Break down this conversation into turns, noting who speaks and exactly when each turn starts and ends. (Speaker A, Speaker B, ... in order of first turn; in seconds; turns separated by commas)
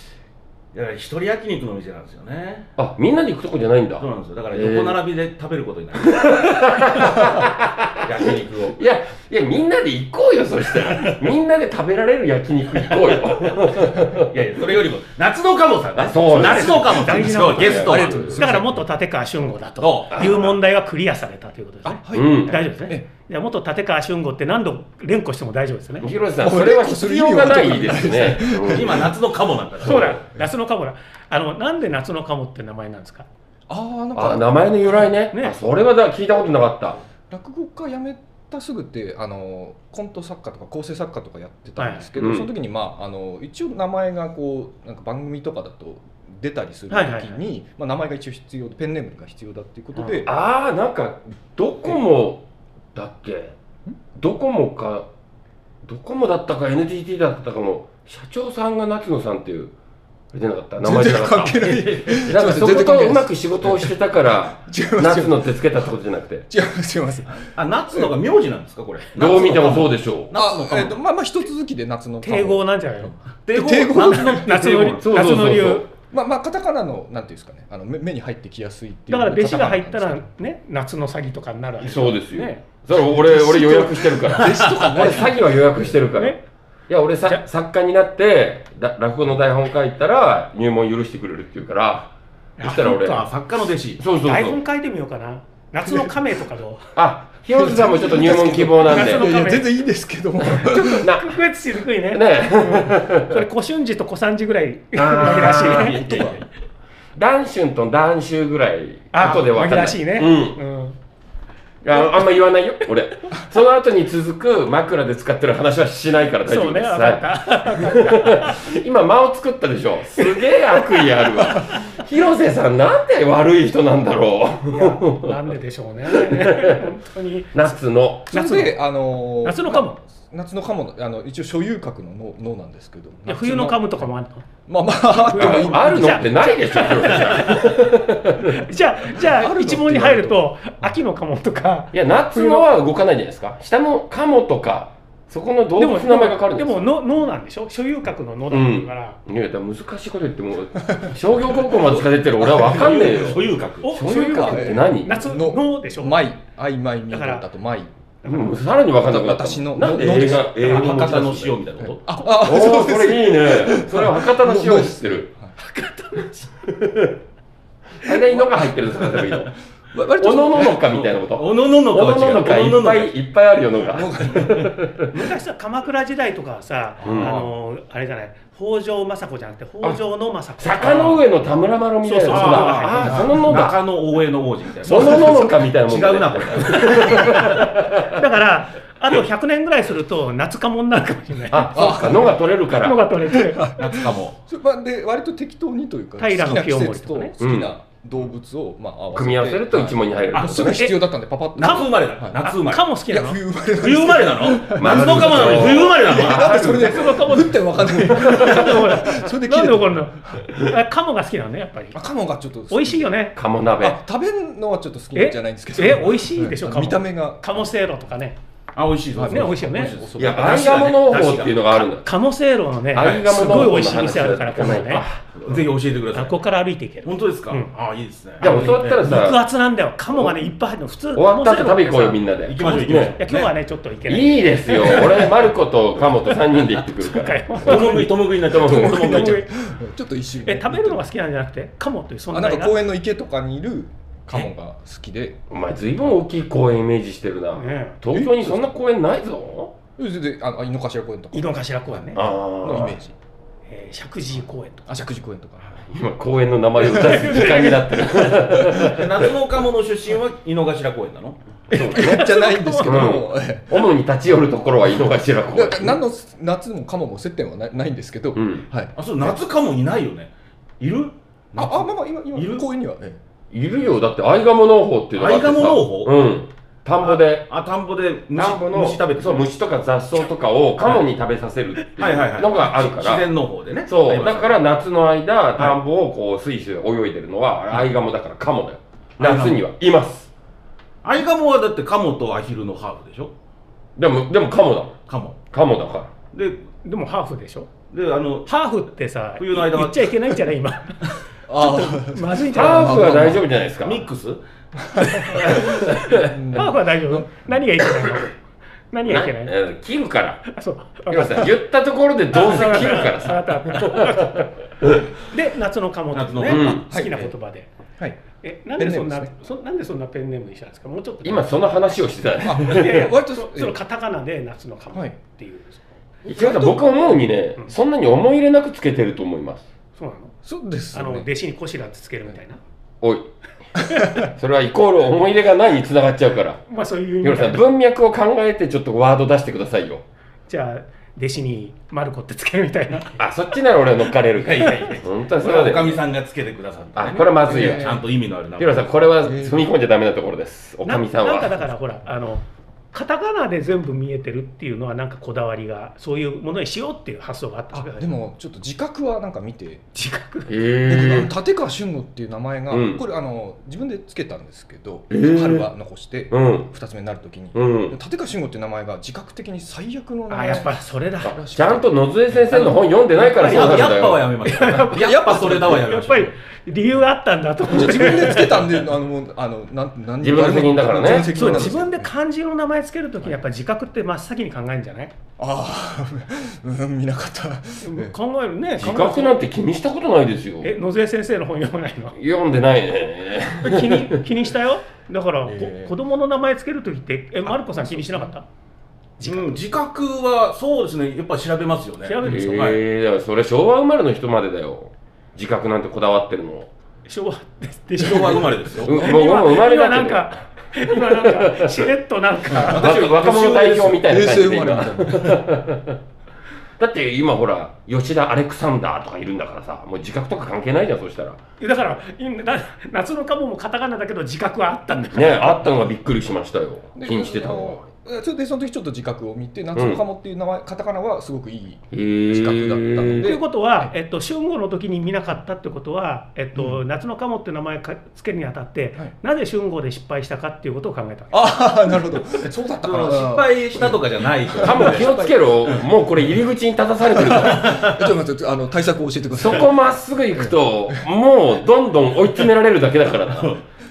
Speaker A: 0.7-2.7, Speaker B: 2.8-5.0, Speaker A: 4.0-7.4, Speaker B: 6.1-14.3, Speaker A: 8.0-8.8, Speaker A: 14.1-18.4, Speaker B: 16.0-18.4, Speaker C: 16.4-26.1, Speaker D: 17.8-18.8, Speaker A: 19.8-20.5, Speaker D: 21.8-23.1, Speaker B: 22.1-22.6, Speaker B: 26.0-29.1, Speaker D: 26.4-29.1, Speaker A: 28.5-30.2, Speaker C: 29.8-33.3, Speaker D: 33.7-35.1, Speaker B: 34.1-37.0, Speaker D: 37.2-50.3, Speaker C: 41.8-42.1, Speaker B: 42.1-42.5, Speaker C: 46.9-47.4, Speaker C: 50.0-50.2, Speaker B: 50.2-53.5, Speaker B: 54.1-55.1, Speaker B: 55.8-59.7, Speaker B: 60.3-66.5, Speaker D: 60.8-63.9, Speaker A: 61.6-62.3, Speaker D: 64.5-65.6, Speaker D: 66.5-68.1, Speaker A: 67.4-71.0, Speaker B: 69.2-70.3, Speaker D: 70.3-74.8, Speaker C: 72.2-73.2, Speaker A: 73.5-75.0, Speaker C: 74.2-75.9, Speaker B: 75.0-75.8, Speaker D: 76.1-80.3, Speaker C: 79.1-82.6, Speaker B: 81.8-86.4, Speaker D: 82.9-85.7, Speaker A: 84.4-85.0, Speaker C: 86.1-86.4, Speaker B: 86.9-92.1, Speaker C: 92.6-93.2, Speaker B: 92.6-93.2, Speaker A: 92.7-94.0, Speaker B: 94.0-94.6, Speaker C: 94.2-96.9, Speaker D: 95.8-96.1, Speaker B: 97.0-99.3, Speaker D: 97.5-101.0, Speaker C: 98.8-99.7, Speaker B: 100.4-101.4, Speaker C: 100.5-106.0, Speaker B: 102.1-103.4, Speaker B: 105.0-106.0, Speaker A: 105.2-106.5, Speaker D: 105.6-106.4, Speaker B: 107.1-110.6, Speaker C: 109.1-111.0, Speaker B: 111.8-125.4, Speaker C: 116.4-118.6, Speaker C: 124.7-127.8, Speaker B: 126.1-126.9, Speaker B: 127.5-128.3, Speaker C: 128.3-128.8, Speaker D: 128.3-134.1, Speaker C: 129.4-129.9, Speaker C: 133.3-134.4, Speaker D: 134.7-136.4, Speaker C: 135.1-137.7, Speaker B: 135.3-138.6, Speaker C: 138.4-142.7, Speaker D: 139.1-140.4, Speaker B: 141.9-146.8, Speaker C: 145.8-149.2, Speaker B: 148.5-155.2, Speaker A: 151.8-153.9, Speaker D: 152.4-153.1, Speaker C: 153.8-156.2, Speaker D: 154.0-157.9, Speaker C: 157.1-157.4, Speaker C: 158.2-158.6, Speaker B: 158.2-161.6, Speaker D: 159.0-165.5, Speaker A: 160.6-162.0, Speaker B: 162.2-165.3, Speaker C: 165.6-166.5, Speaker B: 166.7-167.2, Speaker B: 168.0-169.5, Speaker D: 169.9-171.0, Speaker B: 170.2-175.2, Speaker A: 170.5-173.1, Speaker D: 173.8-174.7, Speaker C: 175.1-181.1, Speaker A: 177.0-177.5, Speaker B: 177.0-177.3, Speaker B: 180.6-183.8, Speaker A: 180.8-181.2, Speaker C: 182.0-183.4, Speaker A: 182.3-187.6, Speaker B: 184.8-188.2, Speaker C: 188.1-192.1, Speaker B: 191.5-193.1, Speaker D: 191.7-192.4, Speaker C: 192.8-193.7, Speaker D: 193.2-202.4, Speaker A: 193.8-194.4, Speaker C: 196.2-197.3, Speaker B: 197.4-197.7, Speaker B: 199.1-200.8, Speaker A: 200.3-200.7, Speaker C: 200.7-203.4, Speaker A: 201.5-202.8, Speaker D: 203.1-210.5, Speaker A: 203.8-206.9, Speaker B: 204.7-207.3, Speaker C: 206.5-212.0, Speaker B: 208.1-208.7, Speaker D: 211.9-213.1, Speaker C: 212.7-213.3, Speaker B: 213.3-214.0, Speaker D: 213.8-217.6, Speaker C: 215.1-218.3, Speaker A: 218.7-221.6, Speaker D: 219.1-220.8, Speaker C: 219.3-219.9, Speaker B: 220.2-222.1, Speaker C: 221.9-227.7, Speaker B: 222.9-225.2, Speaker A: 223.0-223.8, Speaker A: 225.3-226.4, Speaker A: 227.0-229.1, Speaker B: 228.4-229.4, Speaker C: 228.4-235.4, Speaker B: 231.1-233.2, Speaker A: 232.4-233.5, Speaker B: 234.1-239.3, Speaker C: 237.0-238.2, Speaker A: 237.6-239.4, Speaker D: 238.5-241.1, Speaker C: 238.9-239.5, Speaker C: 240.4-242.8, Speaker D: 242.3-245.4, Speaker B: 245.5-249.7, Speaker C: 247.5-248.0, Speaker D: 248.1-248.7, Speaker D: 250.0-253.1, Speaker C: 251.3-252.2, Speaker B: 252.1-253.0, Speaker C: 253.7-254.9, Speaker D: 254.9-255.8, Speaker B: 255.9-259.3, Speaker D: 256.9-257.7, Speaker C: 256.9-257.9, Speaker A: 258.6-261.4, Speaker D: 261.7-263.7, Speaker C: 261.7-263.2, Speaker B: 261.7-262.2, Speaker B: 262.8-266.0, Speaker D: 265.5-269.4, Speaker B: 268.3-268.6, Speaker A: 268.9-272.6, Speaker D: 271.6-273.2, Speaker B: 273.5-277.5, Speaker A: 275.1-276.2, Speaker A: 277.0-279.5, Speaker B: 278.3-283.2, Speaker A: 280.8-281.1, Speaker A: 282.0-284.6, Speaker B: 283.9-290.3, Speaker A: 289.2-289.6, Speaker A: 291.0-293.3, Speaker B: 293.9-295.0, Speaker A: 295.1-295.4, Speaker B: 295.5-296.1, Speaker A: 296.3-296.6, Speaker C: 296.8-297.7, Speaker A: 297.9-298.5, Speaker C: 298.5-303.2, Speaker A: 299.4-300.3, Speaker D: 301.5-303.4, Speaker B: 302.5-304.0, Speaker A: 303.8-304.4, Speaker D: 304.9-307.5, Speaker B: 305.2-306.4, Speaker C: 305.3-308.3, Speaker C: 308.9-309.5, Speaker B: 309.1-310.4, Speaker C: 310.4-311.5, Speaker B: 311.1-315.0, Speaker C: 312.3-314.5, Speaker C: 315.2-317.7, Speaker A: 316.1-316.7, Speaker B: 316.4-316.9, Speaker D: 316.7-317.3, Speaker C: 318.4-321.7, Speaker D: 318.8-319.3, Speaker B: 321.2-323.0, Speaker D: 322.4-323.7, Speaker C: 322.6-325.9, Speaker D: 326.2-326.9, Speaker B: 326.2-329.6, Speaker C: 330.0-330.3, Speaker D: 330.4-331.3, Speaker C: 330.9-332.6, Speaker B: 333.0-333.3, Speaker B: 334.2-336.6, Speaker C: 336.7-337.6, Speaker B: 337.2-340.0, Speaker C: 340.5-343.2, Speaker B: 343.2-346.0, Speaker A: 344.4-348.9, Speaker B: 346.9-348.0, Speaker D: 347.5-348.0, Speaker B: 348.6-351.7, Speaker D: 349.2-349.7, Speaker C: 350.8-358.2, Speaker D: 357.7-359.9, Speaker C: 359.9-360.5, Speaker B: 360.5-361.3, Speaker D: 360.9-372.5, Speaker B: 362.7-363.0, Speaker B: 365.1-365.7, Speaker B: 366.3-366.7, Speaker B: 367.5-367.9, Speaker C: 370.3-371.4, Speaker B: 371.5-374.3, Speaker A: 372.5-376.3, Speaker C: 373.4-373.9, Speaker C: 374.4-378.7, Speaker D: 374.9-375.9, Speaker D: 377.7-382.1, Speaker B: 380.2-381.7, Speaker C: 381.3-385.1, Speaker D: 385.4-388.1, Speaker C: 387.8-389.4, Speaker B: 388.8-390.7, Speaker C: 390.6-392.1, Speaker B: 392.1-394.2, Speaker C: 393.6-398.4, Speaker D: 395.4-395.9, Speaker D: 397.5-398.3, Speaker C: 399.2-399.6, Speaker A: 399.2-402.8, Speaker C: 402.0-402.7, Speaker B: 402.2-406.7, Speaker C: 407.1-412.9, Speaker A: 408.0-409.0, Speaker D: 408.0-409.2, Speaker B: 408.8-410.3, Speaker B: 410.9-411.8, Speaker A: 412.5-414.0, Speaker B: 412.6-416.0, Speaker D: 414.0-415.4, Speaker B: 416.8-421.4, Speaker C: 421.6-425.6, Speaker B: 425.1-427.8, Speaker D: 426.9-433.9, Speaker B: 429.7-430.0, Speaker B: 431.9-433.4, Speaker C: 433.2-441.7, Speaker D: 441.3-445.4, Speaker A: 442.8-445.9, Speaker B: 444.6-448.0, Speaker D: 447.1-449.8, Speaker A: 447.6-448.0, Speaker B: 449.3-453.6, Speaker D: 450.3-451.0, Speaker A: 453.3-453.6